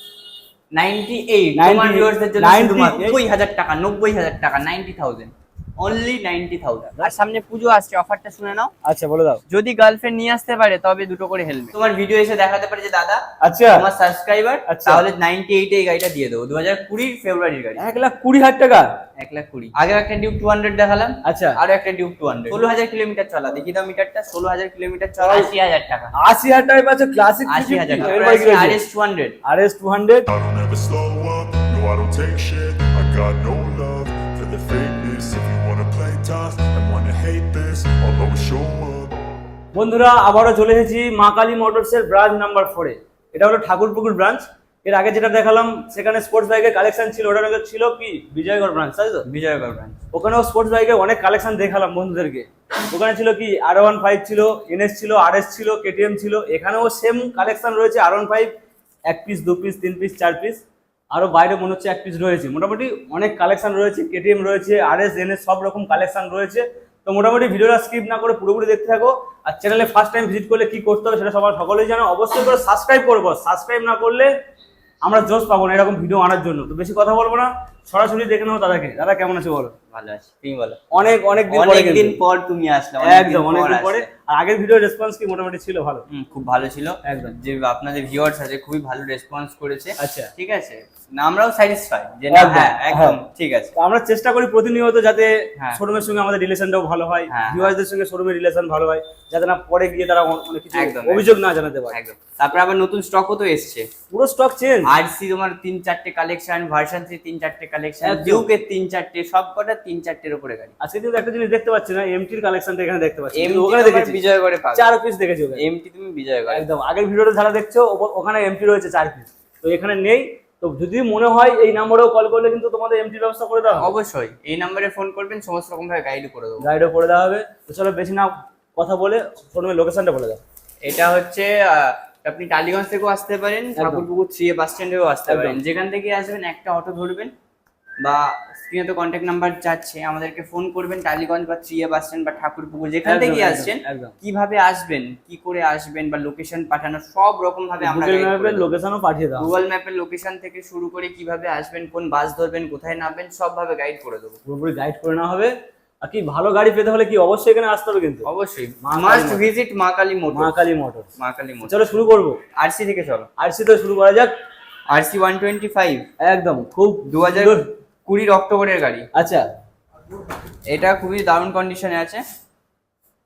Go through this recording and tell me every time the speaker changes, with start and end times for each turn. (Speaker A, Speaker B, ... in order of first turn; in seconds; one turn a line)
Speaker A: 0.7-8.7
Speaker B: 1.6-3.2
Speaker B: 8.8-9.4
Speaker A: 9.5-17.8
Speaker B: 13.4-13.9
Speaker B: 14.7-15.0
Speaker B: 17.8-18.9
Speaker A: 19.2-26.1
Speaker B: 21.2-21.6
Speaker B: 25.2-25.5
Speaker B: 26.1-28.8
Speaker A: 27.5-29.4
Speaker B: 29.4-30.3
Speaker C: 30.3-39.2
Speaker B: 39.8-49.2
Speaker A: 49.2-50.0
Speaker B: 50.1-58.5
Speaker B: 59.1-60.6
Speaker B: 61.1-74.3
Speaker B: 75.0-79.7
Speaker A: 79.9-80.8
Speaker B: 80.9-82.2
Speaker A: 81.5-84.1
Speaker B: 83.0-86.0
Speaker A: 86.1-93.7
Speaker B: 87.0-87.3
Speaker B: 90.0-90.3
Speaker B: 92.3-93.2
Speaker B: 93.8-102.0
Speaker A: 97.3-97.7
Speaker A: 100.7-101.4
Speaker A: 101.9-103.9
Speaker B: 104.1-104.9
Speaker A: 104.8-110.7
Speaker B: 108.0-108.5
Speaker B: 110.8-114.2
Speaker A: 113.3-114.9
Speaker B: 114.7-115.6
Speaker A: 115.6-116.7
Speaker B: 116.5-123.9
Speaker A: 123.8-126.7
Speaker B: 126.6-130.4
Speaker A: 130.8-137.3
Speaker B: 133.8-134.1
Speaker B: 135.3-135.6
Speaker A: 138.0-148.7
Speaker B: 143.1-144.1
Speaker B: 147.8-149.5
Speaker A: 149.4-154.4
Speaker B: 154.5-158.3
Speaker A: 158.2-160.5
Speaker B: 158.8-159.5
Speaker B: 160.3-161.1
Speaker A: 161.2-161.8
Speaker B: 161.7-162.4
Speaker A: 162.6-163.3
Speaker B: 163.4-164.3
Speaker A: 164.9-166.1
Speaker B: 166.2-167.7
Speaker A: 167.1-169.1
Speaker B: 169.2-169.4
Speaker A: 170.7-172.2